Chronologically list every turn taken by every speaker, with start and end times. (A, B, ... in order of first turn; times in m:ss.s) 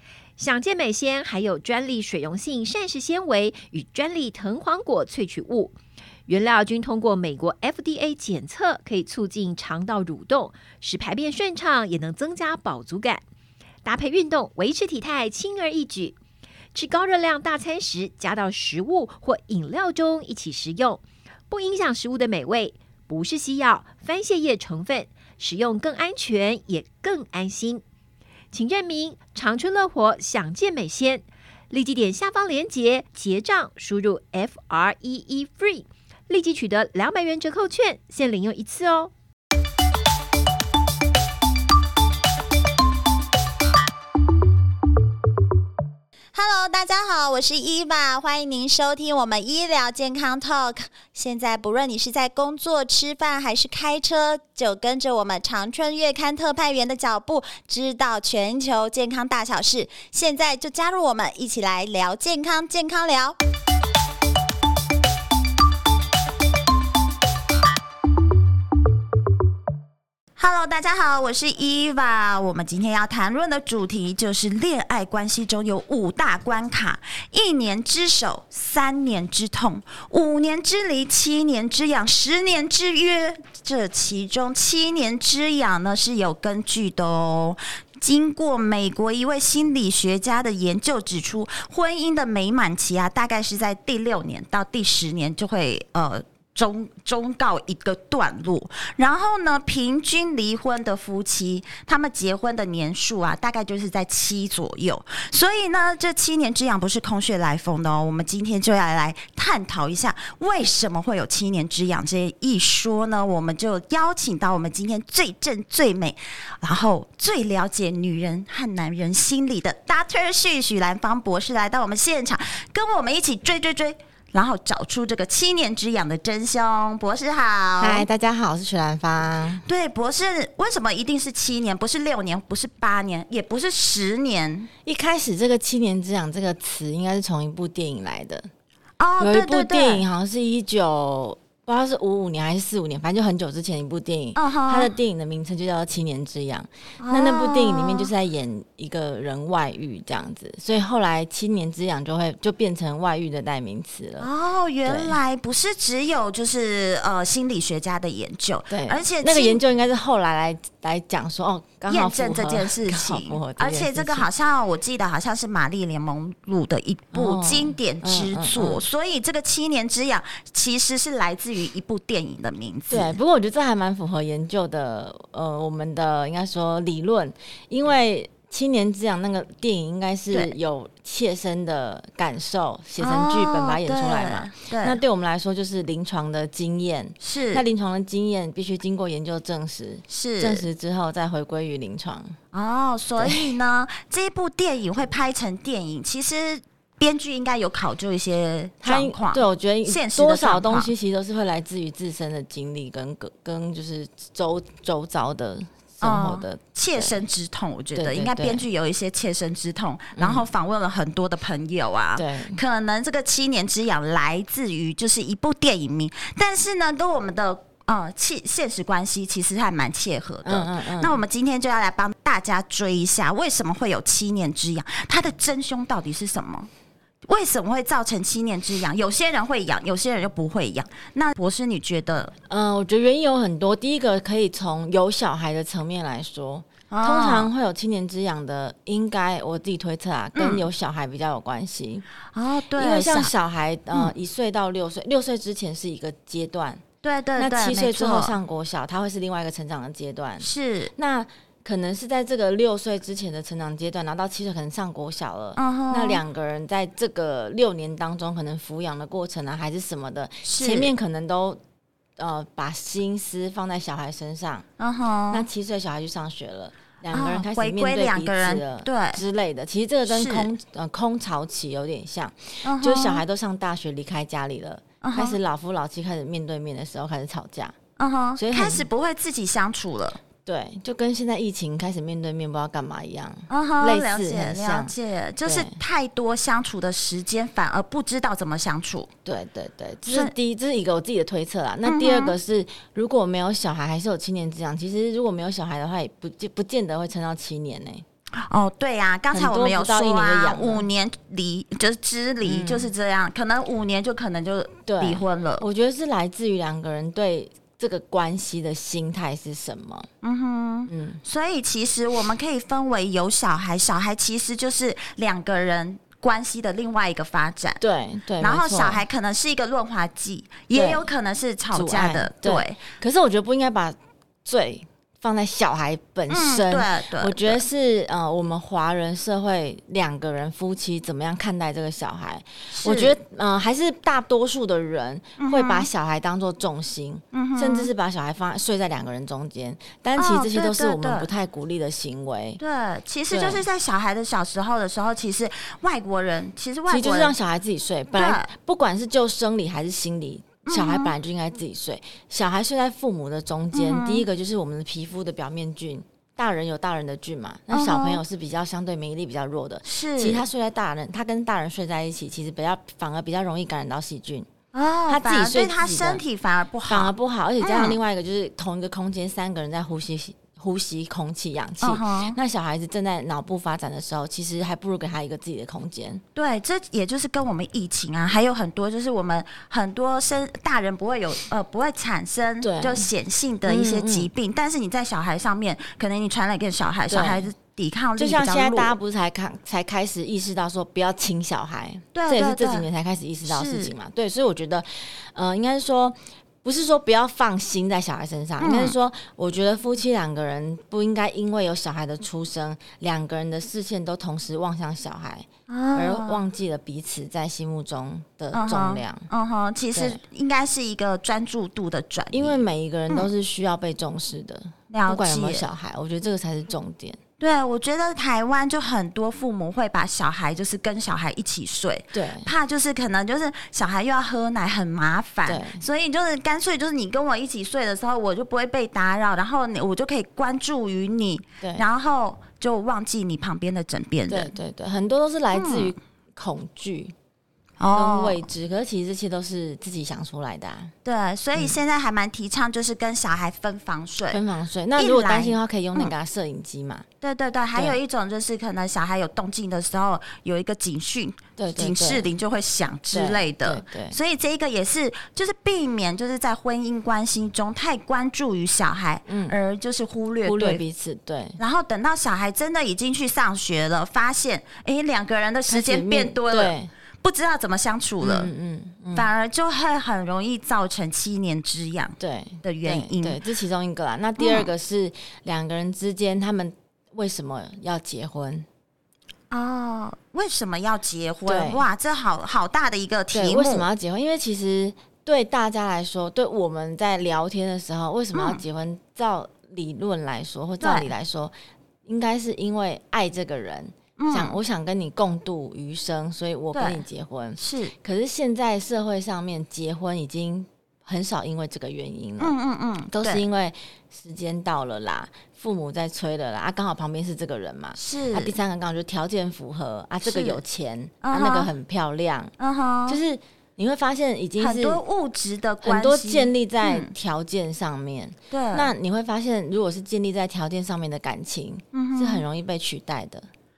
0:00.4-0:05.7 A
0:06.3-0:13.2 A
0:13.8-0:16.2 A
0:16.7-0:27.8 A
0:28.5-0:39.1 A
0:46.3-1:03.4 B
1:10.4-2:08.0 B
2:07.8-2:09.6 C
2:09.6-2:14.7 B
2:14.8-2:18.5 C
2:19.0-2:20.0 B
2:19.2-2:34.3 C
2:24.3-2:24.9 B
2:27.0-2:28.1 B
2:34.2-2:39.6 B
2:34.8-2:35.2 C
2:38.7-2:44.3 C
2:41.9-2:53.2 B
2:47.1-2:48.8 C
2:52.9-3:12.4 C
3:03.0-3:05.0 B
3:07.2-3:07.6 B
3:10.1-3:10.6 B
3:12.5-3:20.9 B
3:13.2-3:13.5 C
3:18.8-3:27.2 C
3:26.0-3:46.7 B
3:27.9-3:28.6 C
3:30.2-3:30.4 C
3:32.2-3:32.6 C
3:40.4-3:41.2 C
3:47.2-3:52.3 B
3:52.5-4:02.0 C
3:56.9-3:57.5 B
4:00.3-4:00.6 B
4:02.3-4:03.3 B
4:02.7-4:06.8 C
4:07.0-4:08.3 B
4:07.4-4:21.6 C
4:10.4-4:10.9 B
4:15.6-4:16.2 B
4:20.4-4:20.9 B
4:22.2-4:24.6 C
4:24.8-4:25.4 B
4:25.3-4:37.7 C
4:27.1-4:29.2 B
4:30.1-4:30.5 B
4:32.6-4:33.2 B
4:35.0-4:35.4 B
4:38.0-4:40.2 B
4:38.4-4:38.9 C
4:40.4-4:45.8 C
4:43.5-4:49.1 B
4:49.2-4:58.0 C
4:50.1-4:50.3 B
4:51.8-4:52.3 B
4:58.4-5:05.6 B
4:59.3-5:00.8 C
5:02.4-5:02.9 C
5:04.8-5:10.1 C
5:10.2-5:17.8 B
5:10.9-5:11.2 C
5:17.8-5:19.0 C
5:18.4-5:22.8 B
5:20.7-5:21.0 C
5:21.7-5:42.6 C
5:26.3-5:27.6 B
5:32.7-5:33.2 B
5:35.4-5:35.9 B
5:37.3-5:37.9 B
5:40.2-5:41.3 B
5:42.6-5:47.3 B
5:43.3-5:43.6 C
5:46.9-6:04.5 C
5:48.1-5:48.5 B
5:50.6-5:51.1 B
5:53.7-5:54.2 B
5:57.7-5:58.2 B
5:59.8-6:00.4 B
6:04.7-6:08.0 B
6:05.1-6:06.2 C
6:06.9-6:16.2 C
6:11.8-6:12.4 B
6:16.3-6:29.0 B
6:22.6-6:23.1 C
6:23.6-6:24.3 C
6:27.1-6:27.5 C
6:28.2-6:49.3 C
6:32.1-6:32.9 B
6:33.4-6:33.9 B
6:38.6-6:38.9 B
6:45.7-6:46.4 B
6:48.5-6:53.3 B
6:49.9-6:50.2 C
6:52.3-6:57.2 C
6:54.9-6:55.6 B
6:57.4-7:14.5 B
7:02.1-7:02.5 C
7:05.4-7:05.8 C
7:14.3-7:17.1 C
7:15.5-7:15.9 B
7:17.8-7:18.4 B
7:17.9-7:20.9 C
7:21.0-7:24.4 B
7:24.3-7:27.0 C
7:25.0-7:26.1 B
7:27.2-7:40.8 B
7:31.6-7:32.3 C
7:33.1-7:34.2 C
7:39.2-7:39.5 C
7:40.4-7:41.6 C
7:41.6-7:48.5 B
7:45.7-7:46.9 C
7:48.2-7:49.3 C
7:49.1-7:53.4 B
7:52.2-7:58.6 C
7:54.4-7:54.7 B
7:59.5-8:03.8 B
8:01.4-8:01.8 C
8:03.3-8:11.5 C
8:08.3-8:08.6 B
8:10.8-8:11.1 B
8:12.0-8:22.6 C
8:14.2-8:14.6 B
8:16.7-8:17.0 B
8:17.6-8:17.9 B
8:22.4-8:23.4 B
8:23.1-8:32.5 C
8:27.9-8:28.5 B
8:30.2-8:30.6 B
8:31.2-8:31.7 B
8:32.6-8:33.2 B
8:33.1-8:35.0 C
8:34.6-8:37.1 B
8:35.8-8:43.5 C
8:38.5-8:38.9 B
8:41.9-8:42.4 B